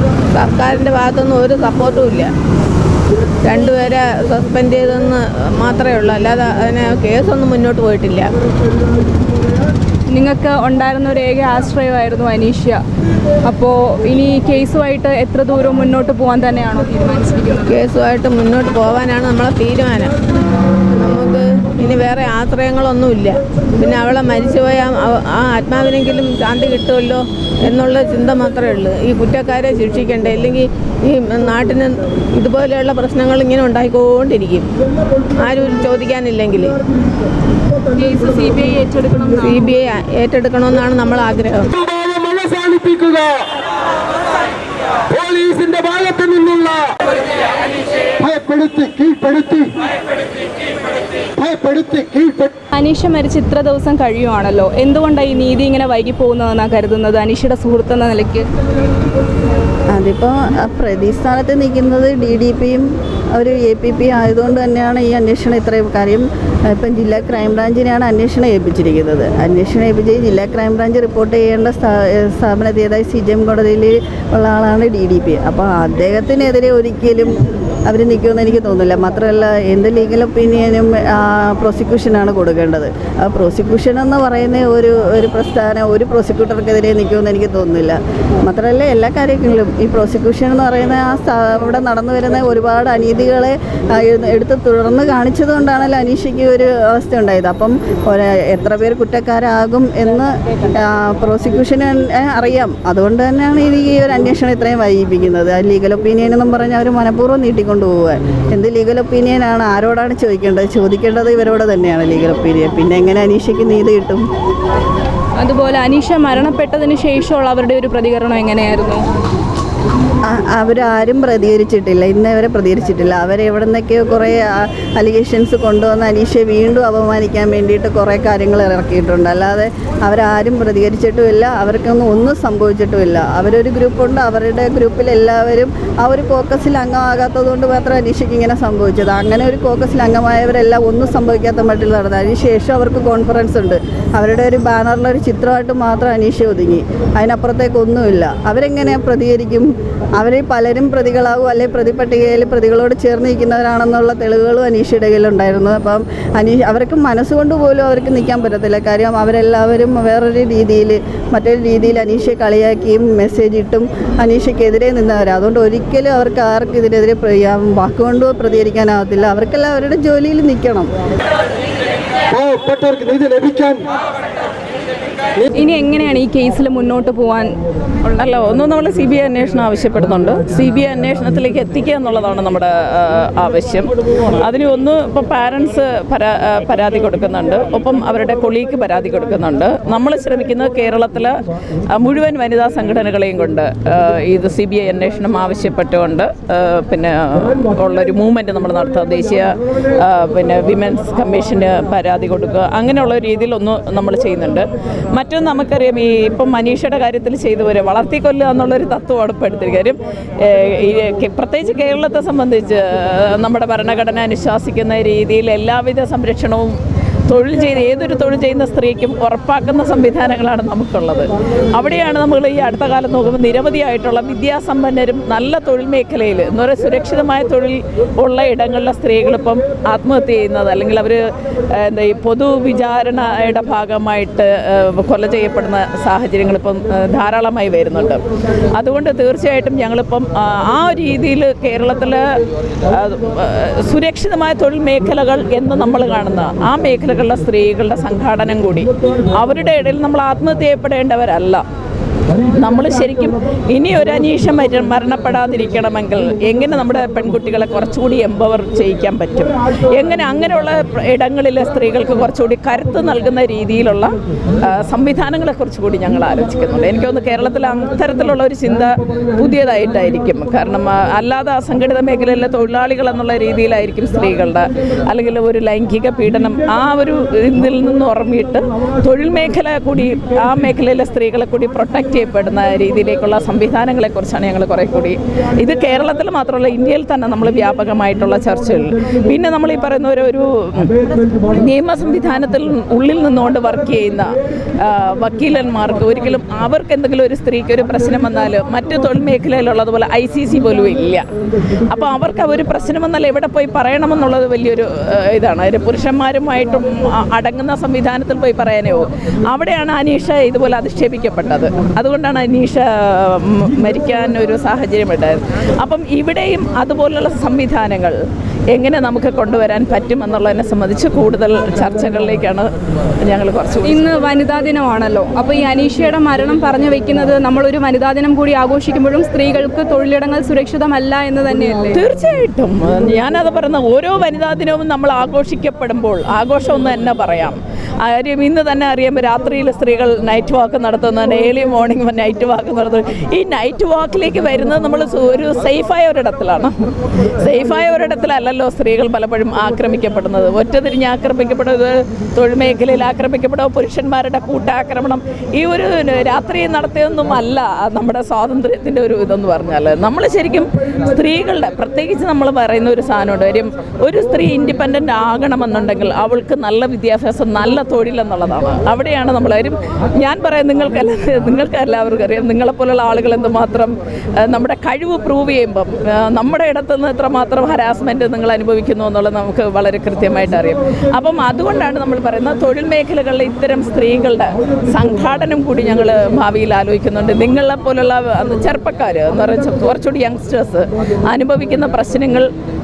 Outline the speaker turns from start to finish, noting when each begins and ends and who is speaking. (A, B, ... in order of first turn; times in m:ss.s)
0:00.3-0:02.3 A
0:03.4-0:08.3 A
0:10.1-0:12.8 B
0:13.5-0:17.8 B
0:17.7-0:20.1 A
0:21.0-0:34.7 A
0:35.4-0:36.8 A
0:38.0-0:39.7 B
0:39.4-0:41.7 A
0:41.9-0:43.3 C
0:45.2-0:46.9 C
0:48.2-0:49.7 C
0:51.4-0:52.5 C
0:52.7-0:58.4 B
1:00.0-1:17.4 D
1:17.9-1:54.2 D
1:55.4-1:59.0 B
2:00.3-2:50.9 D
2:52.4-2:53.8 C
2:55.6-2:57.5 B
2:58.1-3:11.3 E
3:11.9-3:36.8 E
3:37.3-3:51.2 E
3:51.8-3:58.2 E
3:58.8-4:02.2 E
4:02.9-4:11.6 E
4:12.6-4:24.1 E
4:24.6-4:50.9 E
4:51.5-5:01.2 E
5:01.9-5:18.2 E
5:18.7-5:22.7 E
5:23.2-5:24.1 E
5:23.9-5:32.0 B
5:31.9-5:46.7 E
5:47.4-6:32.5 E